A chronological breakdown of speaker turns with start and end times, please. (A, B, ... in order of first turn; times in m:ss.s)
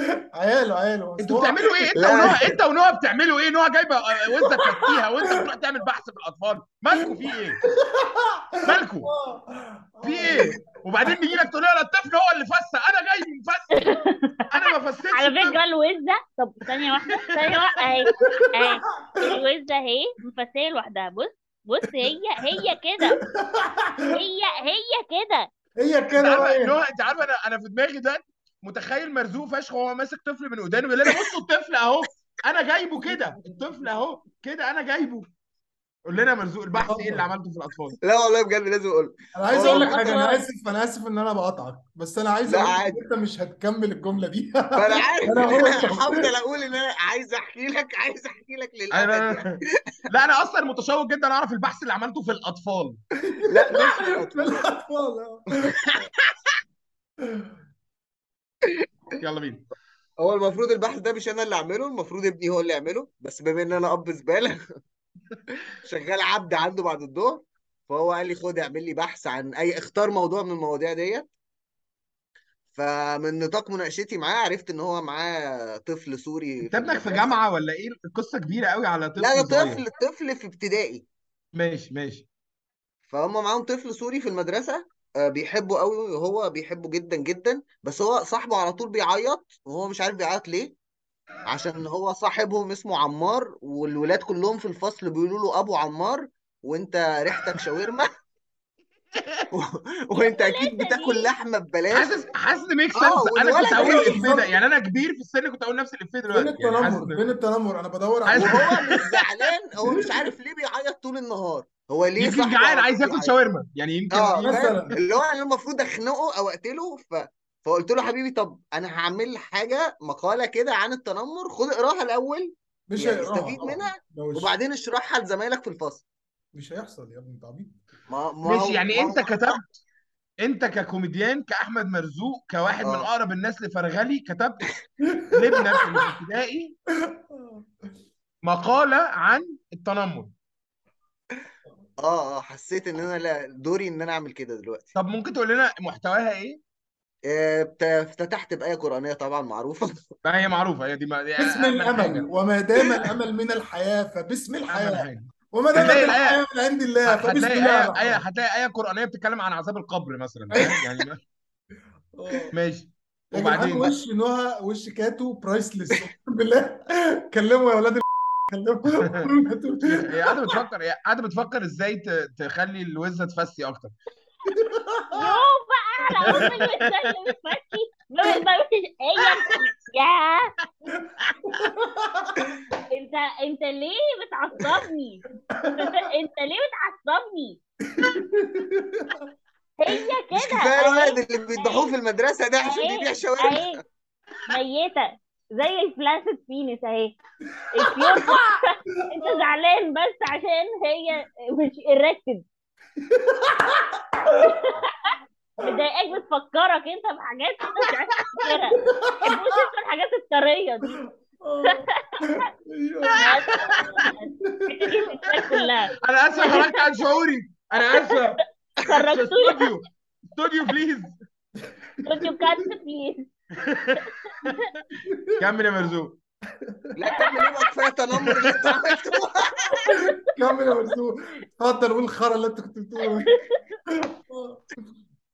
0:00.3-0:02.5 A
0:01.2-0:07.6 B
0:02.0-0:02.6 C
0:04.5-0:05.4 A
0:07.7-0:10.6 A
0:08.6-0:09.1 B
0:10.0-0:13.8 B
0:13.7-0:23.2 D
0:14.5-0:15.6 B
0:17.4-0:17.7 B
0:18.2-0:18.5 A
0:23.3-0:24.1 A
0:24.1-0:25.5 D
0:25.8-0:26.8 A
0:26.2-0:35.3 B
0:36.1-0:38.0 B
0:36.8-0:37.3 A
0:38.0-0:40.0 C
0:39.3-0:46.2 A
0:39.6-0:40.5 D
0:42.5-0:43.0 C
0:44.8-0:49.6 C
0:48.9-0:53.0 B
0:53.3-0:55.7 A
0:53.4-0:54.7 C
0:55.6-0:56.0 C
0:59.2-0:59.6 B
1:00.2-1:04.6 C
1:05.8-1:11.3 C
1:12.7-1:17.3 C
1:16.7-1:19.8 B
1:19.2-1:21.0 C
1:21.6-1:22.3 B
1:23.1-1:30.8 C
1:31.5-1:38.1 C
1:39.5-1:42.2 C
1:40.2-1:41.3 D
1:41.9-1:47.2 B
1:43.0-1:44.3 C
1:43.7-1:44.5 A
1:46.3-1:48.8 A
1:48.3-1:49.3 B
1:48.4-1:53.3 C
1:49.9-1:50.2 A
1:52.2-1:54.6 B
1:54.1-2:06.0 C
1:54.4-1:55.0 A
2:02.9-2:04.5 A
2:06.5-2:07.8 A
2:08.1-2:09.6 C
2:08.4-2:09.8 B
2:10.4-2:14.7 B
2:12.8-2:13.1 C
2:15.2-2:16.1 A
2:15.3-2:16.8 B
2:17.1-2:17.6 A
2:18.4-2:20.3 B
2:22.0-2:25.0 C
2:25.0-2:26.6 B
2:27.3-2:30.0 C
2:30.2-2:32.3 B
2:31.4-2:38.2 A
2:34.7-2:36.4 B
2:37.0-2:41.2 B
2:40.5-2:40.8 A
2:42.2-2:42.5 A
2:42.5-2:43.9 B
2:43.3-2:50.6 A
2:49.0-2:49.3 B
2:49.9-2:53.9 B
2:54.5-2:55.4 A
2:55.1-3:00.5 D
2:56.3-2:56.5 A
2:56.3-2:57.1 B
3:01.0-3:02.6 A
3:01.3-3:01.6 B
3:02.9-3:07.6 D
3:05.5-3:06.1 A
3:07.9-3:09.3 A
3:09.8-3:11.9 D
3:10.3-3:13.8 C
3:12.6-3:13.8 D
3:14.5-3:17.2 D
3:17.5-3:18.4 A
3:17.7-3:22.4 D
3:19.0-3:19.4 A
3:23.0-3:24.8 A
3:24.4-3:31.0 D
3:28.8-3:29.4 A
3:30.9-3:35.0 A
3:31.7-3:32.4 D
3:33.1-3:34.1 B
3:33.2-3:36.8 D
3:35.4-3:41.2 B
3:37.9-3:38.2 D
3:38.8-3:39.7 D
3:42.0-3:42.7 A
3:42.0-3:43.3 D
3:43.6-3:44.6 B
3:44.0-3:44.7 D
3:45.0-3:45.4 A
3:45.4-3:46.2 B
3:46.6-3:47.0 A
3:47.0-3:49.8 C
3:47.1-3:47.4 D
3:48.1-3:48.7 B
3:49.8-3:50.1 D
3:49.8-3:53.3 A
3:53.3-3:53.6 D
3:53.9-3:54.6 A